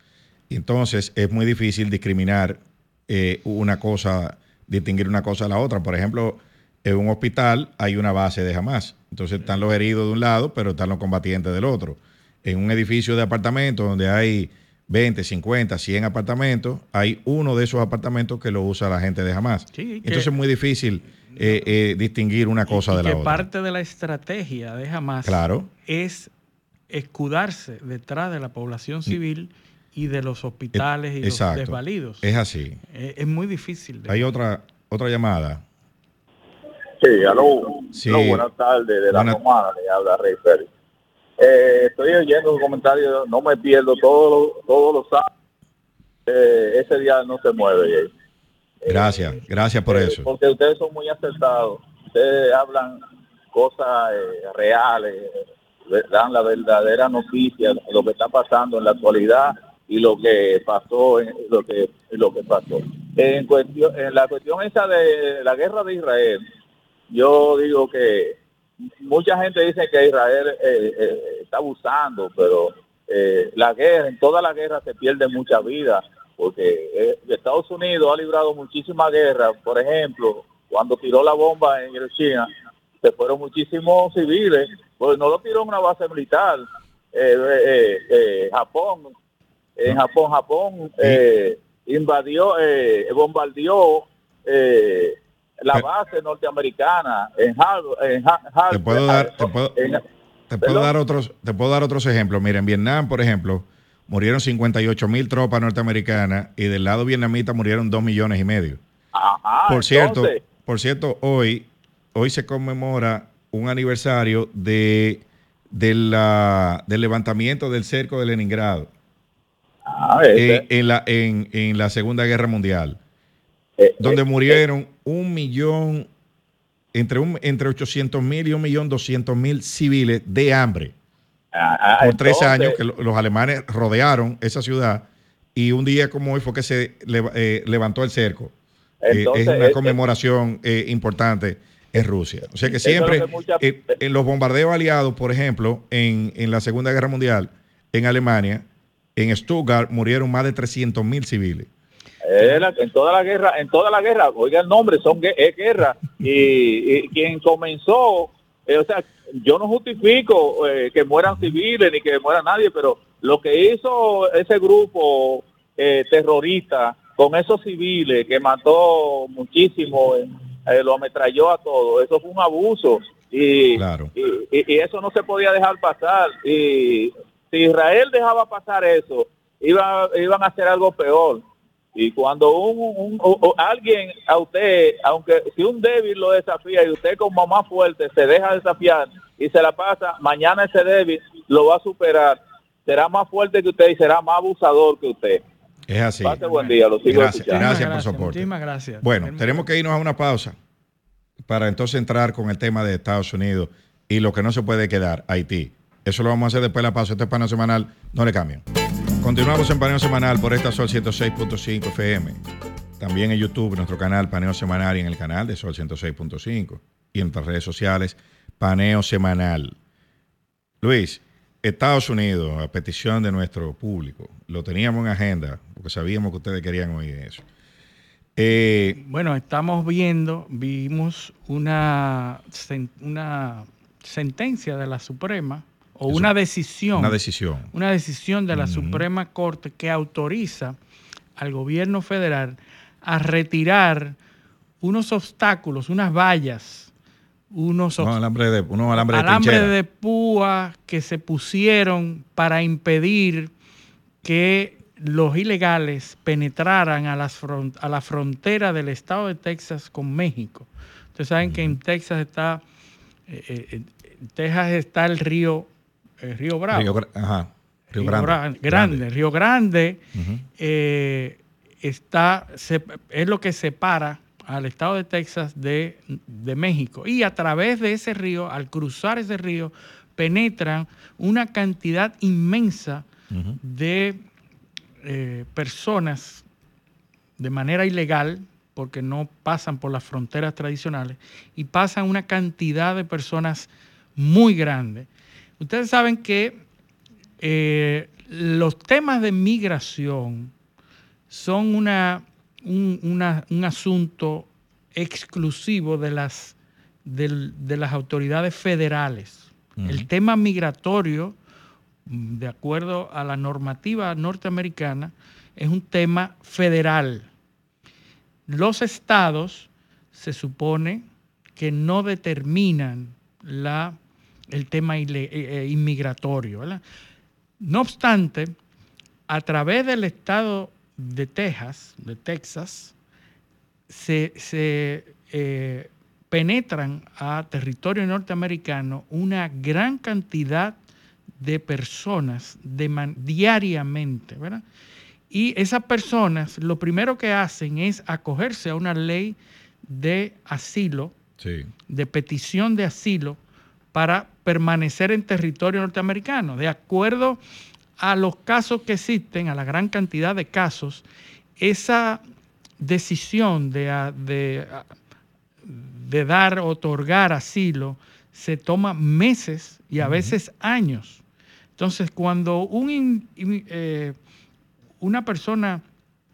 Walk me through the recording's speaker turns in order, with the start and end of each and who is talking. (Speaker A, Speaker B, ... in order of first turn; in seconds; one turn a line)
Speaker A: 0.5-23.4
Speaker B: 19.7-20.3
Speaker B: 21.3-21.7
Speaker B: 22.7-26.3
Speaker A: 25.2-25.7
Speaker B: 26.9-32.3
Speaker A: 30.7-32.8
Speaker B: 32.9-34.3
Speaker A: 34.1-35.6
Speaker C: 37.0-40.7
Speaker A: 37.9-38.5
Speaker A: 39.1-39.4
Speaker C: 41.4-45.3
Speaker C: 46.3-48.1
Speaker C: 48.9-49.2
Speaker A: 48.9-50.3
Speaker C: 49.9-53.0
Speaker C: 53.5-55.3
Speaker C: 55.9-66.4
Speaker C: 67.1-68.4
Speaker C: 69.0-82.5
Speaker C: 83.0-89.1
Speaker C: 89.8-100.0
Speaker A: 98.7-99.8
Speaker A: 100.5-108.8
Speaker C: 100.6-100.9
Speaker C: 109.1-110.4
Speaker A: 109.7-118.9
Speaker C: 119.9-120.6
Speaker A: 120.3-123.0
Speaker C: 123.8-124.6
Speaker A: 124.0-126.1
Speaker A: 126.9-130.9
Speaker C: 131.5-132.8
Speaker A: 132.0-138.5
Speaker C: 139.0-140.0
Speaker A: 139.1-151.7
Speaker B: 142.7-143.2
Speaker C: 142.8-143.6
Speaker C: 152.3-181.4
Speaker A: 173.7-174.1
Speaker C: 181.9-195.4
Speaker A: 195.9-196.4
Speaker C: 196.2-197.7
Speaker B: 196.4-196.8
Speaker A: 197.1-198.5
Speaker B: 197.4-199.7
Speaker A: 199.0-200.6
Speaker A: 201.5-208.6
Speaker A: 209.2-212.4
Speaker A: 213.0-219.8
Speaker A: 220.8-227.4
Speaker A: 228.4-229.0
Speaker B: 228.9-237.2
Speaker A: 236.9-237.7
Speaker B: 237.7-240.8
Speaker A: 238.5-239.1
Speaker B: 241.4-244.2
Speaker B: 244.8-246.9
Speaker B: 247.5-248.2
Speaker A: 248.0-249.7
Speaker B: 248.9-253.5
Speaker B: 254.2-262.6
Speaker A: 261.4-261.7
Speaker B: 263.3-265.7
Speaker B: 266.2-266.9
Speaker A: 266.7-269.0
Speaker B: 267.9-270.0
Speaker A: 270.1-270.4
Speaker B: 270.6-283.1
Speaker A: 283.3-283.6
Speaker B: 283.6-284.2
Speaker B: 285.0-286.4
Speaker B: 287.4-295.1
Speaker B: 295.6-296.6
Speaker B: 297.4-300.5
Speaker B: 301.3-311.4
Speaker A: 309.8-310.1
Speaker B: 312.1-317.3
Speaker B: 318.5-321.1
Speaker B: 321.6-324.0
Speaker B: 324.5-326.8
Speaker B: 327.6-328.5
Speaker B: 329.3-332.9
Speaker B: 333.9-340.8
Speaker B: 341.4-344.6
Speaker B: 345.3-351.1
Speaker A: 351.4-351.7
Speaker B: 351.9-353.4
Speaker B: 353.9-357.4
Speaker B: 358.0-361.0
Speaker B: 361.6-362.2
Speaker B: 362.8-364.9
Speaker B: 365.6-371.2
Speaker A: 370.0-370.4
Speaker B: 371.8-374.1
Speaker B: 375.0-375.8